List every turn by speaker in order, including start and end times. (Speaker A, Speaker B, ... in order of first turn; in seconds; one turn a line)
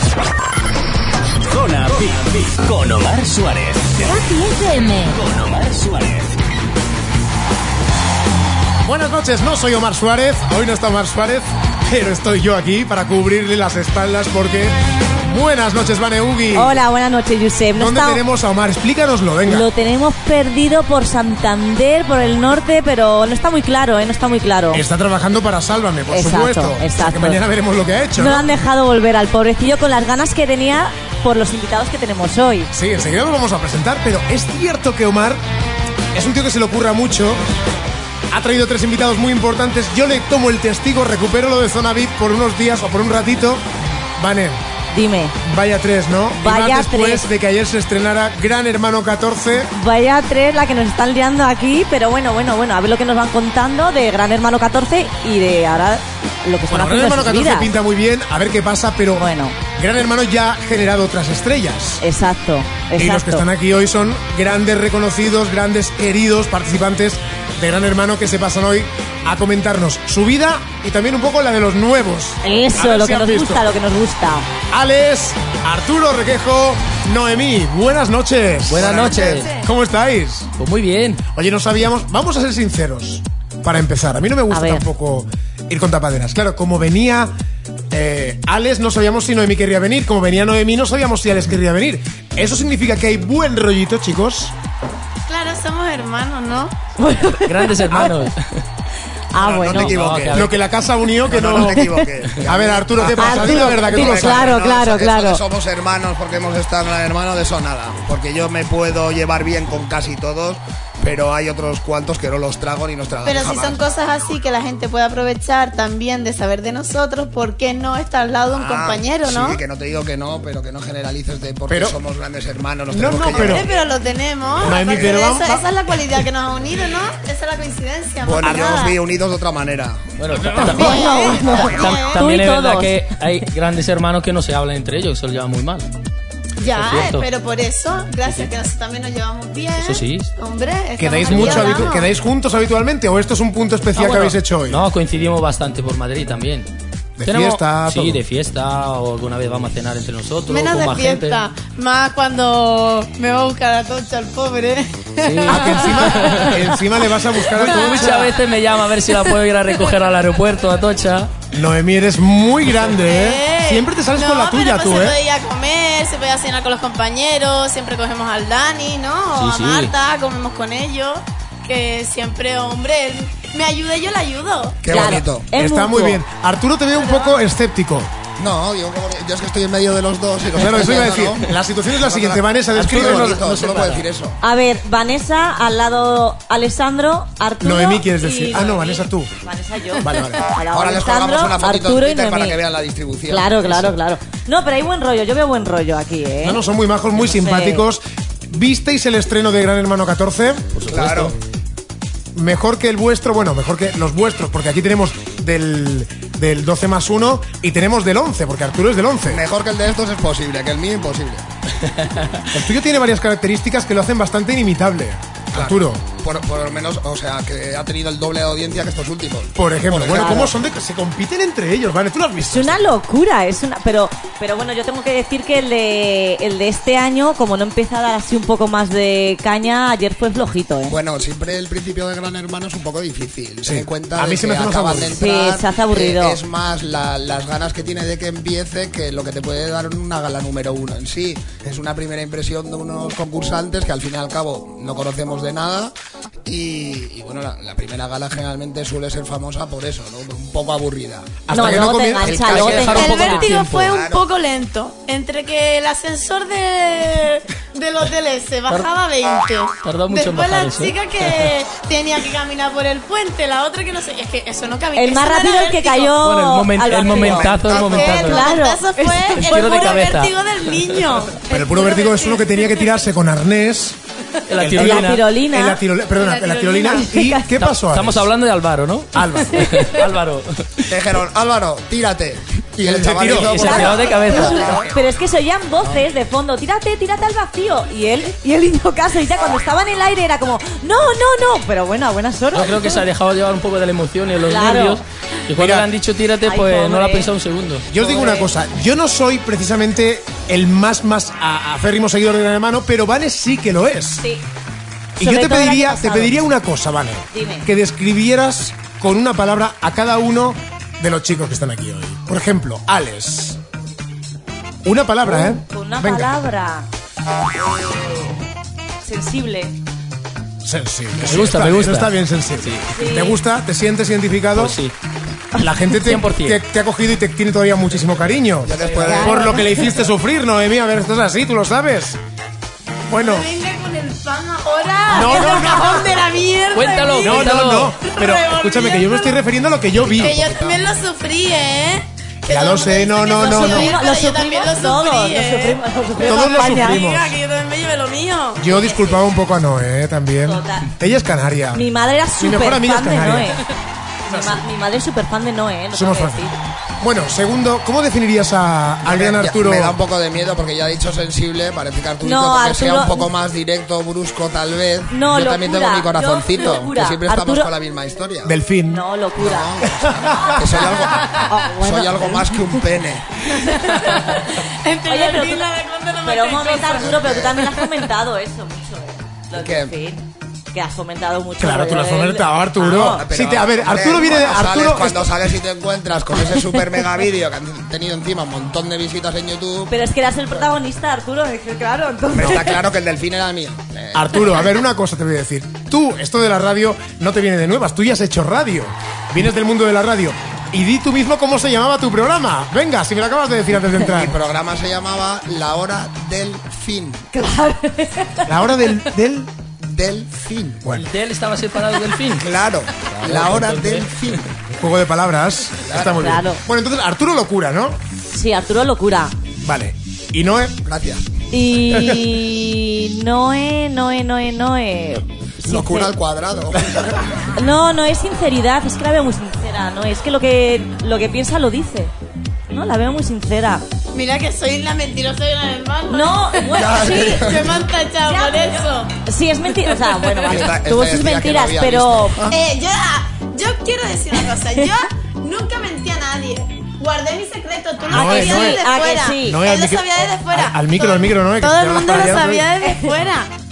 Speaker A: 1.5-4.2
Speaker A: 5.1-6.3
Speaker B: 8.8-16.8
Speaker C: 16.5-18.2
Speaker B: 17.8-19.7
Speaker C: 19.5-24.8
Speaker B: 24.7-28.5
Speaker C: 26.1-27.4
Speaker C: 28.2-32.7
Speaker B: 32.7-35.4
Speaker B: 36.1-37.4
Speaker B: 38.3-43.6
Speaker B: 44.2-44.6
Speaker C: 44.9-45.4
Speaker B: 45.4-49.7
Speaker C: 46.4-47.3
Speaker C: 49.7-57.7
Speaker B: 56.7-59.2
Speaker C: 59.1-59.6
Speaker B: 59.8-62.0
Speaker C: 62.0-63.5
Speaker B: 63.0-73.7
Speaker C: 72.4-74.5
Speaker B: 74.7-80.5
Speaker D: 78.7-79.5
Speaker E: 78.7-79.5
Speaker D: 80.6-81.2
Speaker B: 81.3-87.3
Speaker C: 84.5-84.8
Speaker B: 87.9-94.5
Speaker F: 95.3-96.7
Speaker C: 97.0-98.1
Speaker D: 97.4-98.6
Speaker C: 99.3-100.0
Speaker E: 99.4-100.5
Speaker D: 99.7-100.5
Speaker B: 100.3-101.9
Speaker E: 101.2-113.8
Speaker B: 102.4-104.5
Speaker C: 103.2-105.4
Speaker F: 113.2-119.6
Speaker E: 118.5-123.8
Speaker B: 121.7-122.0
Speaker B: 122.9-123.7
Speaker F: 123.3-128.9
Speaker B: 124.6-125.6
Speaker E: 124.6-125.2
Speaker E: 128.2-130.0
Speaker D: 130.2-135.9
Speaker F: 130.6-132.2
Speaker C: 130.7-133.0
Speaker F: 136.6-142.1
Speaker D: 136.6-137.3
Speaker D: 138.2-138.5
Speaker D: 139.8-140.3
Speaker B: 141.0-144.8
Speaker D: 141.3-141.9
Speaker D: 143.9-146.7
Speaker B: 147.2-148.2
Speaker D: 147.2-151.4
Speaker F: 150.4-156.4
Speaker D: 155.2-156.8
Speaker B: 155.4-158.3
Speaker D: 157.5-161.3
Speaker F: 157.6-158.3
Speaker B: 161.5-165.2
Speaker F: 163.0-174.8
Speaker D: 169.3-169.9
Speaker E: 174.8-175.4
Speaker C: 174.9-176.2
Speaker B: 175.5-178.1
Speaker F: 177.0-177.3
Speaker E: 178.4-184.4
Speaker B: 180.5-183.4
Speaker D: 182.7-184.1
Speaker C: 184.4-192.6
Speaker B: 187.6-189.3
Speaker B: 190.0-190.4
Speaker E: 190.7-193.9
Speaker C: 193.3-196.6
Speaker B: 196.4-200.8
Speaker C: 197.2-197.8
Speaker D: 200.7-201.3
Speaker E: 200.9-201.3
Speaker B: 202.3-209.4
Speaker E: 209.3-211.4
Speaker B: 212.5-216.0
Speaker E: 215.5-220.5
Speaker B: 219.6-222.9
Speaker C: 220.1-220.5
Speaker C: 222.5-230.9
Speaker E: 230.9-245.9
Speaker B: 233.6-235.2
Speaker C: 235.1-236.4
Speaker E: 246.4-251.3
Speaker B: 251.5-252.8
Speaker C: 251.5-253.5
Speaker E: 252.2-253.2
Speaker D: 252.5-254.0
Speaker F: 252.9-266.1
Speaker E: 253.8-254.2
Speaker D: 259.8-261.6
Speaker C: 264.9-267.6
Speaker D: 266.2-268.5
Speaker E: 267.1-268.2
Speaker F: 267.7-272.9
Speaker C: 268.2-270.0
Speaker D: 269.3-271.0
Speaker B: 271.5-274.0
Speaker D: 274.5-275.2
Speaker B: 274.6-278.3
Speaker C: 274.8-275.8
Speaker F: 276.1-277.1
Speaker C: 276.9-277.4
Speaker D: 277.6-280.8
Speaker B: 279.1-279.8
Speaker E: 280.9-284.9
Speaker B: 282.8-283.8
Speaker D: 283.2-284.7
Speaker C: 283.6-293.0
Speaker D: 292.5-297.9
Speaker C: 294.5-295.0
Speaker B: 295.6-295.9
Speaker C: 296.4-297.3
Speaker B: 297.9-304.2
Speaker C: 298.0-298.5
Speaker B: 305.2-313.6
Speaker C: 305.2-306.4
Speaker C: 307.3-307.7
Speaker B: 314.8-316.3
Speaker C: 315.2-316.9
Speaker C: 317.5-318.4
Speaker C: 319.0-319.7
Speaker B: 320.6-324.8
Speaker D: 321.2-322.9
Speaker C: 322.9-323.4
Speaker D: 324.6-324.9
Speaker B: 325.6-332.2
Speaker D: 326.0-326.6
Speaker E: 328.6-329.5
Speaker D: 328.8-329.2
Speaker C: 329.1-329.8
Speaker B: 333.1-333.5
Speaker F: 333.1-339.4
Speaker B: 335.1-336.2
Speaker D: 336.7-337.9
Speaker B: 337.2-340.4
Speaker E: 339.9-340.9
Speaker F: 340.1-349.1
Speaker B: 342.4-343.9
Speaker C: 343.4-347.1
Speaker B: 346.2-347.4
Speaker B: 348.6-351.8
Speaker C: 350.4-350.9
Speaker C: 351.7-353.6
Speaker B: 352.4-353.6
Speaker C: 354.3-356.5
Speaker B: 354.3-354.6
Speaker B: 355.9-360.0
Speaker E: 359.0-368.5
Speaker C: 362.2-363.3
Speaker C: 365.1-367.7
Speaker B: 368.4-369.0
Speaker C: 368.9-369.7
Speaker E: 369.4-373.3
Speaker C: 370.4-370.8
Speaker C: 371.3-372.5
Speaker F: 373.5-377.2
Speaker C: 373.7-374.2
Speaker C: 375.1-375.6
Speaker C: 376.2-383.2
Speaker E: 377.0-377.5
Speaker E: 379.5-379.9
Speaker B: 381.6-385.3
Speaker E: 382.9-389.9
Speaker C: 389.9-392.8
Speaker E: 392.3-394.7
Speaker B: 394.1-404.4
Speaker E: 404.0-407.2
Speaker C: 407.3-408.4
Speaker B: 408.4-409.5
Speaker E: 409.8-410.8
Speaker D: 410.9-412.4
Speaker E: 412.4-414.4
Speaker D: 413.0-414.4
Speaker B: 414.7-418.0
Speaker E: 415.9-416.2
Speaker C: 416.1-416.6
Speaker C: 418.3-419.3
Speaker B: 419.6-420.8
Speaker E: 420.8-421.3
Speaker C: 421.5-426.1
Speaker B: 421.9-422.2
Speaker E: 425.6-427.2
Speaker C: 427.5-432.1
Speaker C: 432.7-433.8
Speaker F: 434.1-439.1
Speaker C: 436.1-437.6
Speaker E: 436.8-437.8
Speaker C: 438.2-442.4
Speaker F: 439.9-440.4
Speaker E: 440.4-442.5
Speaker F: 442.5-453.5
Speaker C: 448.1-449.6
Speaker B: 448.1-448.8
Speaker B: 449.4-452.7
Speaker C: 452.2-453.1